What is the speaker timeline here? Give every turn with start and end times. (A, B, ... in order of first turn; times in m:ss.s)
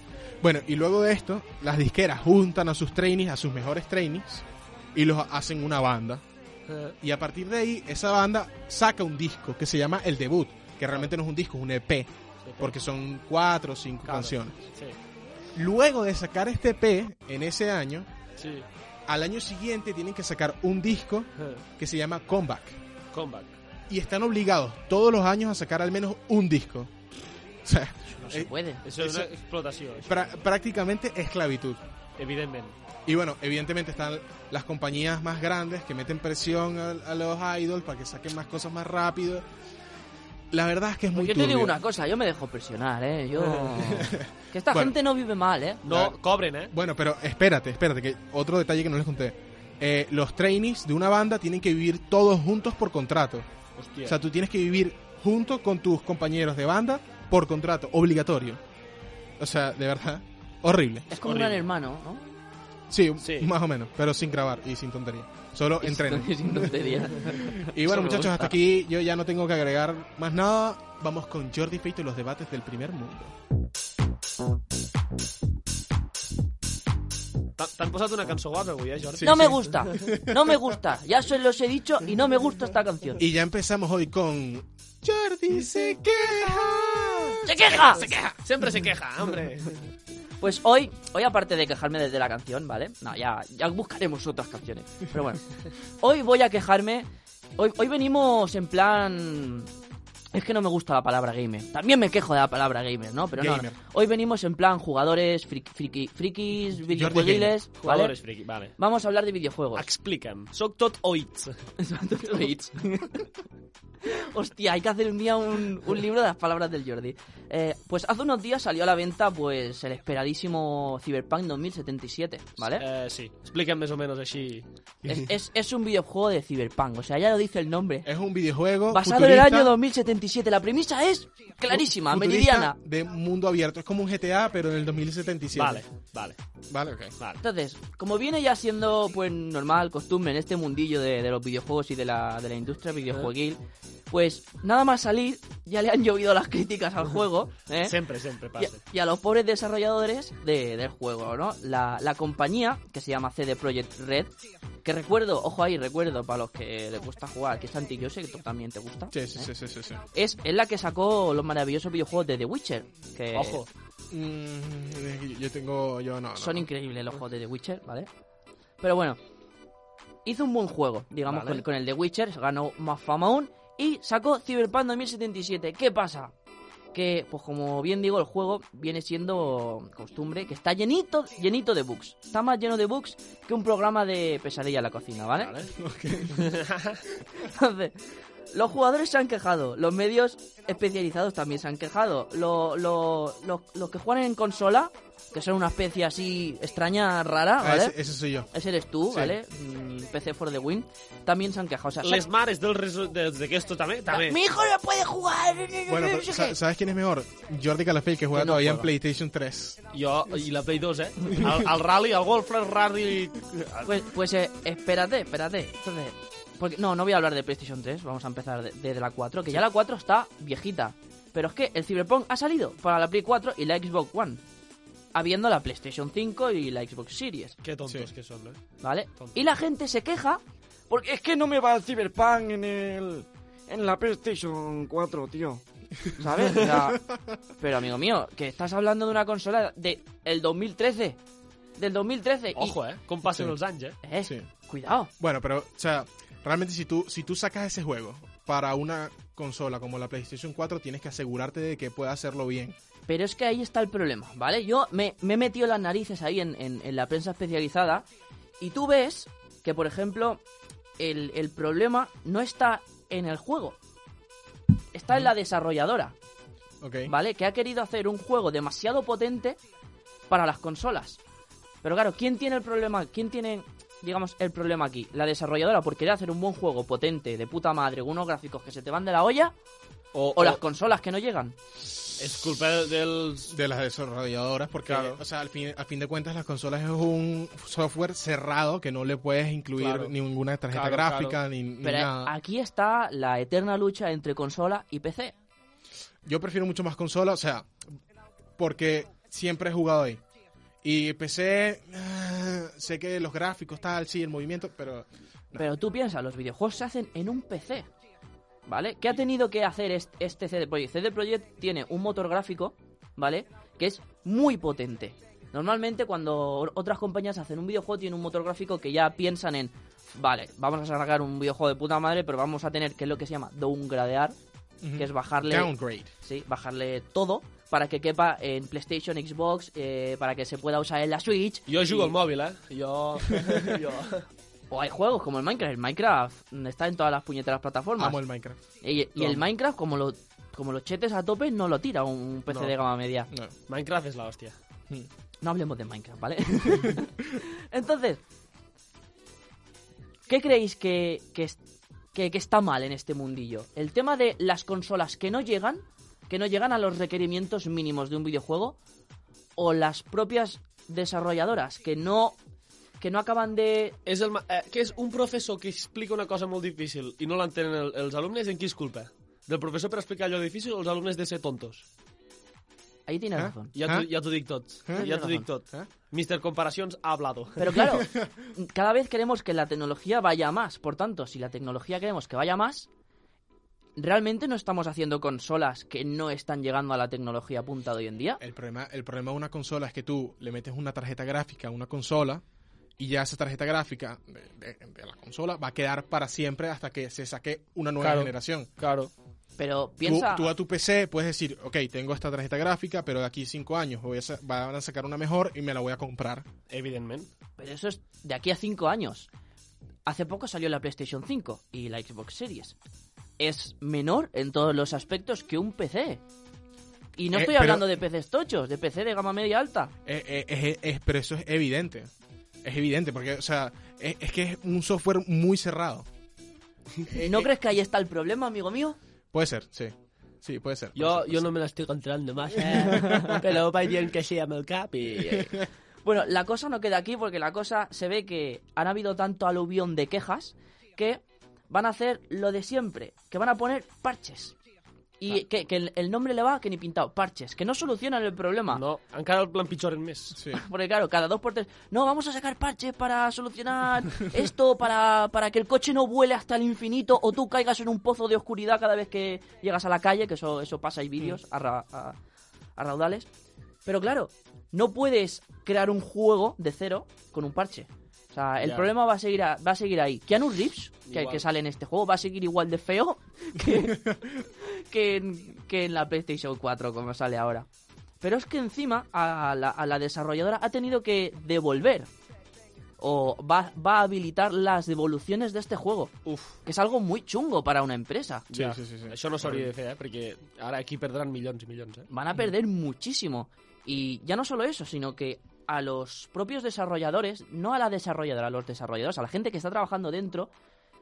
0:00.4-0:06.2 A
0:06.7-0:06.9 B
0:07.0-0:14.6 A
0:12.4-0:12.7 B
0:14.0-0:15.0 B
0:15.5-0:18.1 A
0:18.4-0:18.7 B
0:19.1-0:22.8 A
0:21.4-0:21.6 B
0:23.1-0:23.5 B
0:23.9-0:27.0 A
0:27.6-0:29.3 A
0:28.0-0:28.8 C
0:28.8-0:30.3 B
0:30.0-0:31.8 A
0:32.2-0:32.8 B
0:33.1-0:39.4 A
0:40.5-0:41.8 A
0:41.1-0:45.8 C
0:43.7-0:44.9 A
0:45.8-0:46.7 B
0:45.8-0:46.2 A
0:46.7-0:53.5 A
0:53.8-0:54.2 B
0:54.0-0:58.6 A
0:59.4-1:01.1 A
1:01.1-1:02.3 C
1:01.2-1:01.6 B
1:02.9-1:13.3 A
1:03.2-1:03.5 B
1:05.8-1:08.5 C
1:07.9-1:08.3 B
1:17.6-1:19.6 B
1:19.2-1:20.7 A
1:19.2-1:23.2 C
1:23.2-1:27.4 A
1:25.5-1:26.7 B
1:27.3-1:29.8 B
1:27.4-1:28.4 C
1:30.4-1:35.4 C
1:36.0-1:39.7 C
1:40.3-1:48.1 C
1:43.4-1:43.7 A
1:46.9-1:47.5 A
1:47.8-1:48.7 B
1:48.8-1:49.9 C
1:49.7-1:51.6 B
1:51.8-1:53.3 C
1:54.0-2:02.8 C
2:02.8-2:05.2 B
2:05.0-2:08.1 C
2:08.0-2:09.7 A
2:08.9-2:12.8 C
2:11.7-2:15.8 A
2:15.5-2:16.4 B
2:16.7-2:17.1 A
2:17.4-2:27.9 C
2:27.8-2:28.8 B
2:28.6-2:34.3 C
2:34.8-2:39.5 C
2:39.1-2:40.0 A
2:40.1-2:43.6 C
2:43.3-2:43.7 B
2:44.1-2:46.7 A
2:46.4-2:48.1 C
2:48.8-2:49.2 C
2:50.2-2:56.3 C
2:51.3-2:51.6 B
2:56.9-3:05.5 C
3:05.4-3:05.7 B
3:05.7-3:06.5 A
3:06.3-3:07.0 B
3:07.4-3:08.0 C
3:08.5-3:18.0 C
3:17.6-3:18.5 A
3:18.5-3:22.2 C
3:19.1-3:19.4 A
3:22.0-3:24.4 B
3:24.1-3:26.6 C
3:25.9-3:29.8 A
3:28.3-3:28.9 C
3:29.9-3:33.9 B
3:33.8-3:44.4 C
3:45.1-3:47.6 C
3:47.6-3:48.6 B
3:48.8-3:50.4 C
3:50.9-3:55.6 D
3:56.2-3:57.0 C
3:56.8-3:57.4 A
3:57.6-4:01.2 C
4:01.8-4:02.8 C
4:02.6-4:04.0 B
4:04.0-4:05.1 C
4:05.2-4:12.8 A
4:13.1-4:18.1 C
4:18.6-4:20.4 C
4:21.0-4:23.8 C
4:24.9-4:26.1 C
4:26.8-4:27.1 A
4:27.1-4:29.6 C
4:30.3-4:31.2 C
4:31.8-4:39.5 C
4:40.1-4:40.6 B
4:40.3-4:41.6 C
4:42.2-4:43.5 B
4:43.5-4:52.3 A
4:44.8-4:45.2 B
4:49.8-4:50.1 B
4:50.7-4:51.4 B
4:51.8-4:55.3 C
4:56.2-4:57.7 A
4:58.6-5:00.2 A
5:00.8-5:05.6 A
5:05.5-5:07.9 C
5:08.7-5:24.4 C
5:24.8-5:26.1 A
5:25.0-5:32.1 C
5:31.7-5:34.2 B
5:34.7-5:38.2 C
5:38.0-5:38.6 A
5:38.8-5:43.3 C
5:43.7-5:44.6 B
5:45.4-5:48.2 C
5:46.7-5:47.0 A
5:50.3-5:51.6 C
5:52.1-5:58.8 C
5:59.6-6:02.4 C
6:03.0-6:04.0 C
6:04.0-6:11.8 B
6:13.1-6:13.7 C
6:13.4-6:14.1 A
6:13.7-6:17.7 B
6:15.0-6:15.5 C
6:17.6-6:22.9 C
6:17.8-6:18.3 A
6:24.0-6:28.4 C
6:28.4-6:32.4 A
6:33.0-6:38.7 A
6:38.0-6:39.1 B
6:39.6-6:40.5 C
6:40.0-6:46.4 A
6:46.7-6:47.3 B
6:47.6-6:49.3 C
6:50.0-6:52.8 C
6:53.4-6:56.2 C
6:57.2-6:59.9 C
6:57.3-6:57.9 A
7:00.0-7:02.1 A
7:02.6-7:06.0 A
7:07.1-7:09.0 C
7:09.3-7:11.4 A
7:11.0-7:15.6 B
7:12.7-7:13.4 C
7:12.9-7:13.4 A
7:16.0-7:24.6 C
7:25.2-7:28.8 C
7:28.7-7:30.4 B
7:30.4-7:30.6 A
7:30.5-7:42.2 C
7:42.8-7:43.3 C
7:43.8-7:57.7 C
7:48.6-7:48.9 B
7:51.1-7:51.4 B
7:53.9-7:54.2 A
7:58.2-8:02.1 C
8:03.0-8:06.1 C
8:06.2-8:06.5 B
8:06.6-8:08.4 C
8:08.5-8:12.1 B
8:08.5-8:09.7 A
8:12.1-8:20.5 C